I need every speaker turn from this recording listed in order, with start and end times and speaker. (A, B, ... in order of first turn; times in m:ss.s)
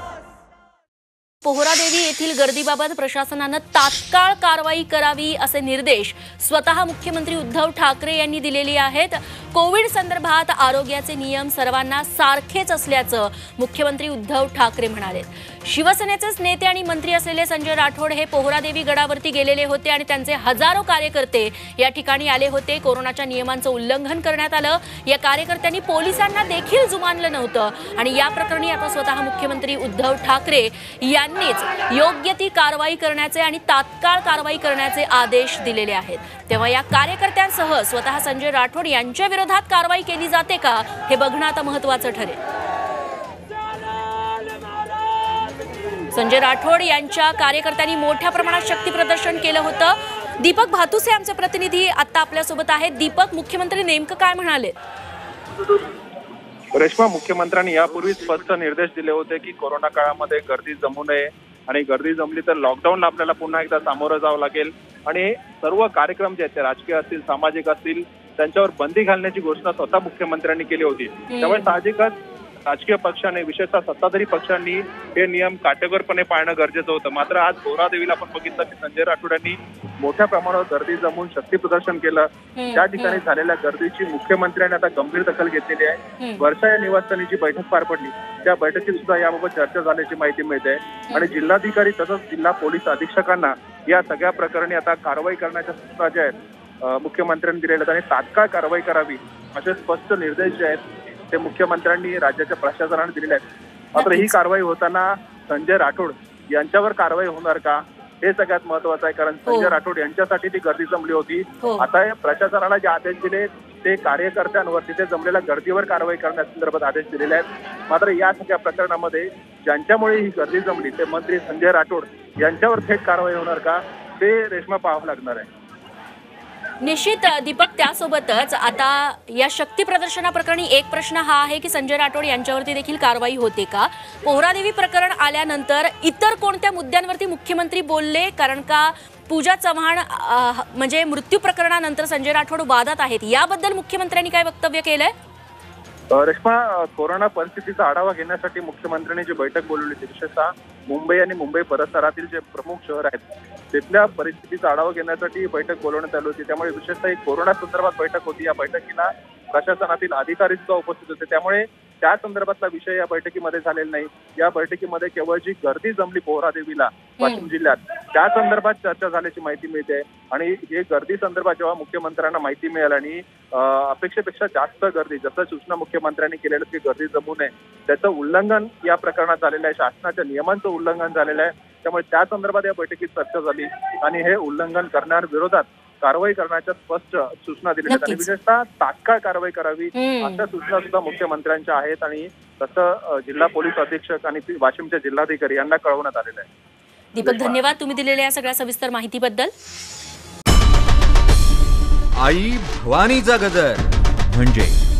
0:01.4-0:42.4 A
0:46.1-0:54.8 A
0:56.7-1:12.1 B
1:11.3-1:11.8 A
1:12.6-1:40.8 B
1:22.6-1:23.2 A
1:26.2-1:26.4 A
1:41.3-1:43.4 B
1:44.0-1:44.4 A
1:44.0-2:05.5 B
1:49.4-1:49.8 A
1:51.6-1:51.9 A
2:06.8-2:25.1 A
2:26.1-3:16.5 B
2:47.2-2:47.5 A
3:07.8-3:08.3 A
3:09.9-3:10.4 A
3:17.1-3:19.5 A
3:22.2-3:24.8 C